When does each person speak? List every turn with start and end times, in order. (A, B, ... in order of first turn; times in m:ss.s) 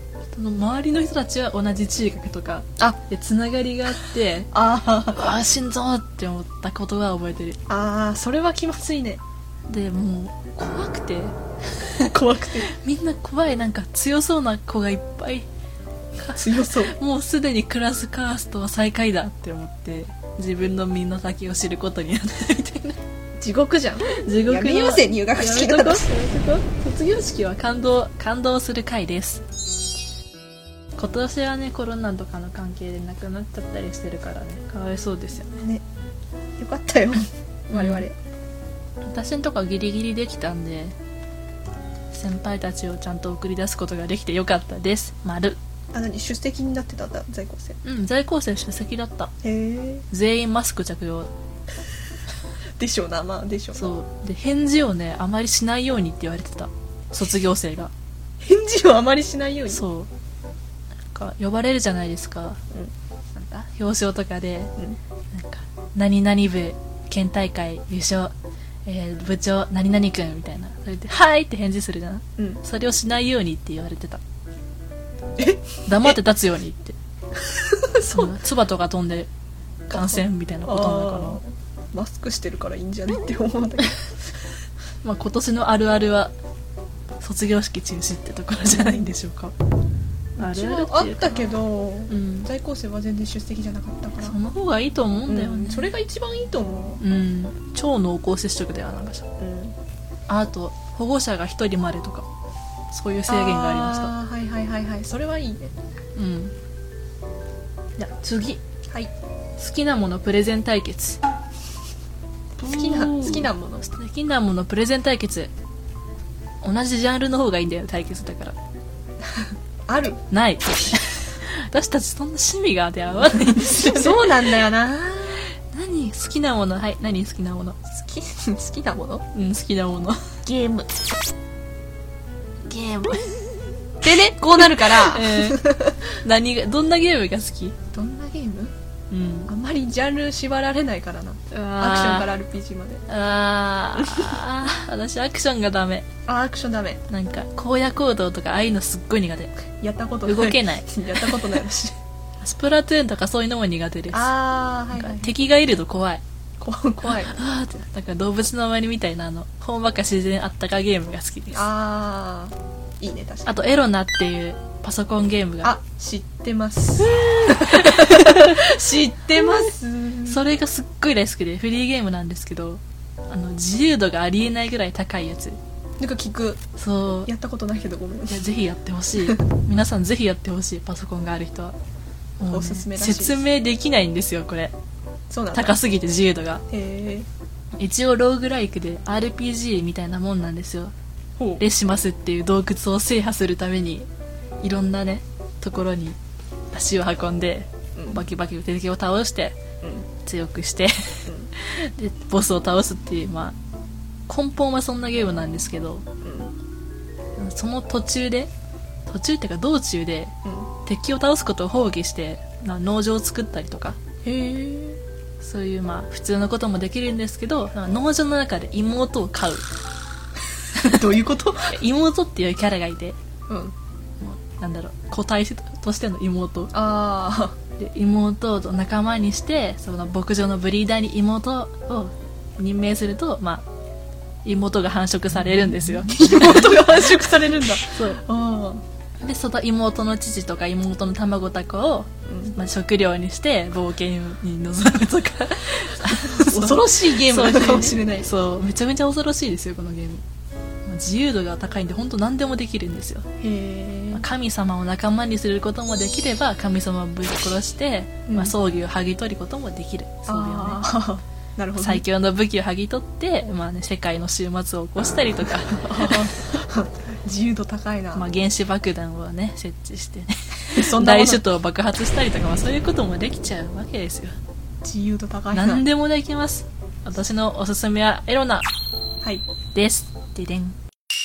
0:00.3-0:04.5 A
0:04.5-0:05.2 B
0:05.1-0:07.6 A
0:07.7-0:09.2 B
0:09.7-0:12.1 A
0:12.0-0:12.7 B
0:12.7-0:15.5 A
0:16.2-0:23.0 A
0:16.3-0:16.9 B
0:23.4-0:26.1 B
0:24.1-0:29.4 A
0:31.0-0:35.6 A
0:35.5-0:35.8 B
0:36.6-0:38.2 B
0:37.7-0:38.1 A
0:39.0-0:41.0 A
0:42.1-0:45.6 A
0:45.9-0:47.8 B
0:47.8-0:49.3 A
0:49.4-0:50.1 B
0:50.1-0:51.3 A
0:52.8-0:53.9 B
0:53.8-0:57.9 A
0:58.4-0:59.8 B
0:59.7-1:00.1 A
1:01.1-1:02.6 A
1:03.4-1:04.7 A
1:05.3-1:08.4 A
1:08.9-1:14.2 A
1:15.4-1:16.2 B
1:15.9-1:17.0 A
1:17.4-1:18.4 B
1:18.1-1:19.3 A
1:19.9-1:21.4 A
1:19.9-1:24.2 B
1:25.0-1:26.3 A
1:27.2-1:29.6 A
1:30.4-1:34.4 B
1:30.4-1:31.6 A
1:32.1-1:32.5 A
1:34.2-1:35.9 A
1:35.3-1:37.0 B
1:37.0-1:39.3 A
1:39.4-1:39.8 B
1:40.3-1:42.3 A
1:42.9-1:44.1 A
1:43.3-1:45.7 B
1:46.2-1:46.6 A
1:48.0-1:48.6 A
1:49.6-1:51.2 A
1:52.6-1:55.5 A
1:52.6-1:53.9 B
1:56.6-1:58.6 A
1:59.9-2:00.2 B
2:00.3-2:04.4 A
2:03.6-2:05.5 B
2:05.6-2:07.8 A
2:07.9-2:09.3 B
2:09.3-2:10.4 A
2:10.5-2:10.9 B
2:12.6-2:13.4 A
2:14.0-2:16.0 B
2:14.6-2:15.7 A
2:16.2-2:17.8 A
2:17.9-2:18.7 B
2:19.1-2:19.5 A
2:19.5-2:23.0 B
2:21.5-2:22.3 A
2:23.1-2:26.1 A
2:26.3-2:27.0 B
2:27.1-2:29.5 A
2:29.8-2:32.0 B
2:30.2-2:31.6 A
2:32.4-2:34.3 A
2:34.1-2:35.3 B
2:34.9-2:36.2 A
2:36.6-2:37.4 B
2:37.0-2:41.7 A
2:41.5-2:43.7 B
2:43.5-2:45.7 A
2:45.6-2:50.4 B
2:47.0-2:49.7 A
2:50.3-2:55.6 A
2:56.0-2:56.6 B
2:56.8-2:57.3 A
2:57.3-2:58.4 B
2:58.3-3:01.8 A
3:02.4-3:04.7 A
3:02.4-3:03.4 B
3:05.3-3:05.8 B
3:05.5-3:06.6 A
3:06.7-3:07.3 B
3:07.8-3:10.9 A
3:11.4-3:11.6 B
3:11.6-3:14.1 A
3:14.6-3:16.2 A
3:16.7-3:19.6 A
3:18.0-3:18.2 B
3:19.8-3:20.1 B
3:20.2-3:23.6 A
3:21.3-3:21.5 B
3:24.3-3:26.1 A
3:26.2-3:26.5 B
3:27.4-3:28.5 A
3:29.1-3:30.3 A
3:30.4-3:30.7 B
3:30.8-3:34.0 A
3:34.2-3:35.0 B
3:35.4-3:39.7 A
3:40.8-3:41.8 B
3:41.7-3:43.2 A
3:43.5-3:43.8 B
3:44.2-3:46.7 A
3:46.7-3:47.6 B
3:47.8-3:53.7 A
3:54.4-3:57.2 A
3:55.8-3:58.8 B
3:57.9-3:58.2 A
3:59.2-4:10.2 A
4:02.3-4:02.6 B
4:06.1-4:08.3 B
4:10.8-4:13.3 A
4:13.4-4:14.2 B
4:14.1-4:20.8 A
4:18.3-4:18.5 B
4:20.3-4:22.0 B
4:21.8-4:26.4 A
4:25.7-4:28.3 B
4:28.2-4:34.4 A
4:30.6-4:31.4 B
4:34.8-4:35.8 B
4:35.5-4:38.7 A
4:39.7-4:40.8 A